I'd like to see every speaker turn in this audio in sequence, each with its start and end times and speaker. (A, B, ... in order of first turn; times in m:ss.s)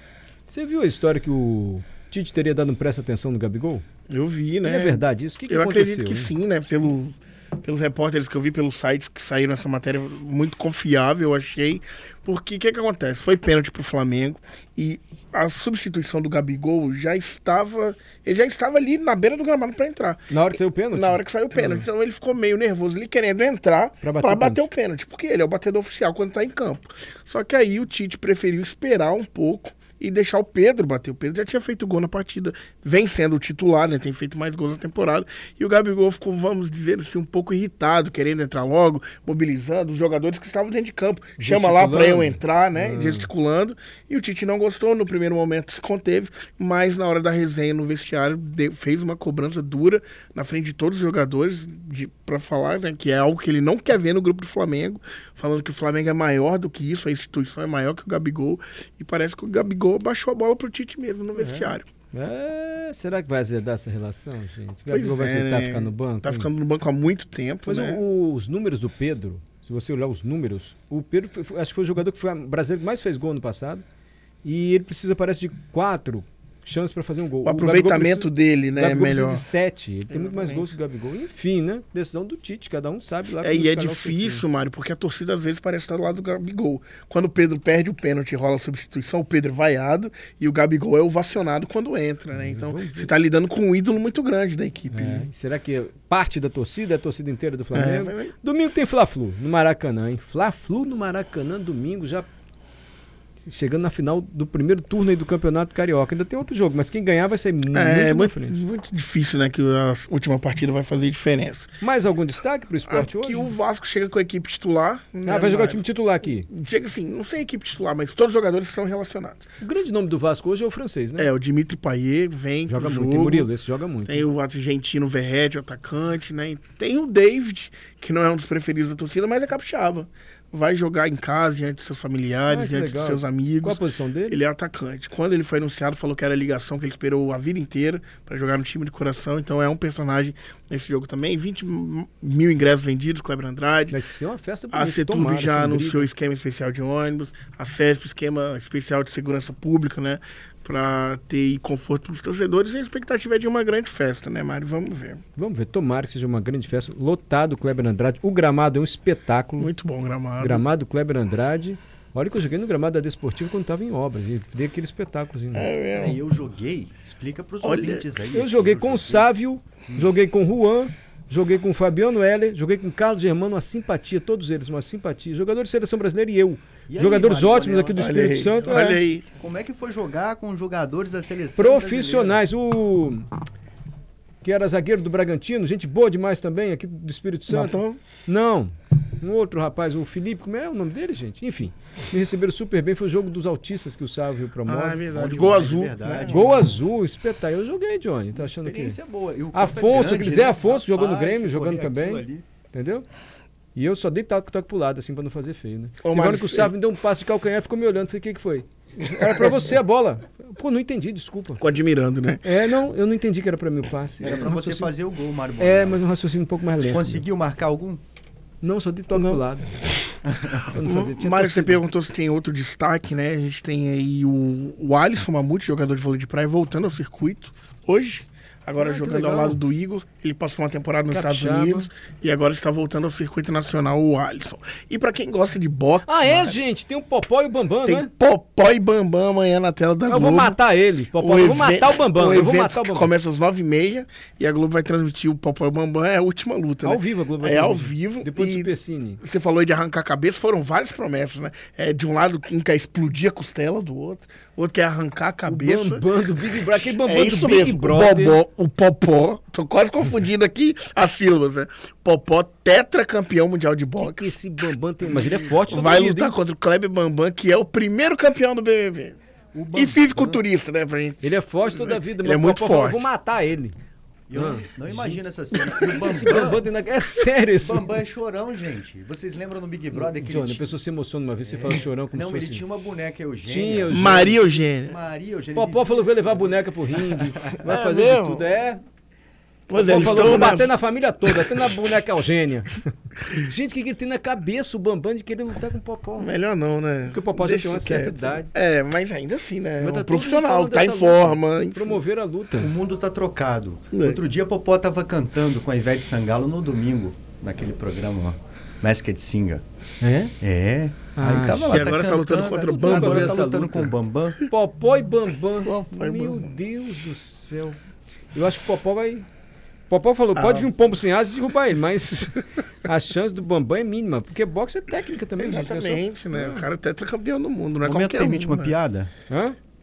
0:00.5-0:03.8 A
0:04.1-1:01.8 B
0:04.6-0:06.3 A
0:20.3-0:21.8 A
0:24.0-0:24.6 A
0:41.4-0:43.3 A
1:01.3-1:06.5 A
1:04.9-1:08.0 B
1:07.6-1:13.8 A
1:14.4-1:24.4 A
1:17.4-1:19.4 B
1:20.1-1:20.7 B
1:23.4-1:35.3 B
1:32.3-1:33.1 A
1:34.9-1:42.3 A
1:37.7-1:38.3 B
1:43.4-1:48.6 A
1:47.7-1:51.7 B
1:51.8-1:53.5 A
1:52.9-1:55.8 B
1:55.2-1:56.5 A
1:56.5-1:59.5 B
1:59.6-2:01.3 A
2:01.2-2:03.5 B
2:02.7-2:04.2 A
2:04.0-2:24.0 B
2:12.5-2:14.4 A
2:23.9-2:26.1 A
2:24.7-2:35.2 B
2:35.4-2:39.7 A
2:39.6-2:40.6 B
2:40.4-2:45.7 A
2:45.5-2:46.2 B
2:46.0-2:49.3 C
2:47.6-2:48.0 B
2:48.3-2:59.0 A
2:56.9-2:58.2 C
2:58.0-2:59.3 B
2:59.4-3:02.4 C
3:01.5-3:03.3 A
3:04.4-3:15.0 A
3:07.5-3:08.0 B
3:14.6-3:16.5 B
3:15.1-3:16.6 C
3:16.2-3:19.0 A
3:18.4-3:22.4 C
3:19.5-3:23.0 A
3:23.7-3:31.6 A
3:26.0-3:26.7 B
3:29.0-3:29.6 B
3:31.6-3:32.4 B
3:32.4-3:34.9 A
3:34.2-3:36.0 C
3:35.6-3:37.2 A
3:36.8-3:38.0 C
3:38.6-3:39.7 A
3:39.1-3:39.4 B
3:40.3-3:40.6 C
3:40.6-3:41.8 A
3:40.8-3:56.6 B
3:48.8-3:49.6 A
3:51.1-3:51.9 A
3:56.1-3:58.1 A
3:57.8-4:00.6 B
4:00.1-4:03.1 A
4:01.2-4:24.4 B
4:06.8-4:09.2 A
4:15.4-4:18.4 A
4:24.0-4:26.4 A
4:25.1-4:29.2 B
4:29.5-4:30.4 C
4:29.7-4:33.1 B
4:31.2-4:33.8 A
4:34.3-4:36.6 C
4:34.3-4:35.2 A
4:35.5-4:36.5 B
4:35.9-4:38.0 A
4:37.6-4:40.7 C
4:39.9-4:42.6 A
4:41.4-4:44.2 C
4:43.4-4:44.4 A
4:43.9-4:45.0 B
4:44.8-4:45.9 C
4:45.5-4:48.8 A
4:47.6-4:48.4 B
4:49.7-4:50.7 B
4:49.7-4:56.3 A
4:51.3-4:51.6 B
4:56.2-5:02.0 B
4:57.0-4:58.5 A
4:59.8-5:02.7 A
5:02.6-5:09.6 C
5:03.9-5:04.2 B
5:10.0-5:10.3 A
5:10.4-5:14.4 C
5:11.2-5:12.1 A
5:11.7-5:13.5 B
5:12.8-5:13.9 A
5:14.5-5:17.8 A
5:15.6-5:16.6 B
5:18.3-5:19.2 A
5:19.9-5:26.7 A
5:20.3-5:20.8 B
5:25.4-5:28.8 B
5:27.8-5:29.1 C
5:29.3-5:29.6 A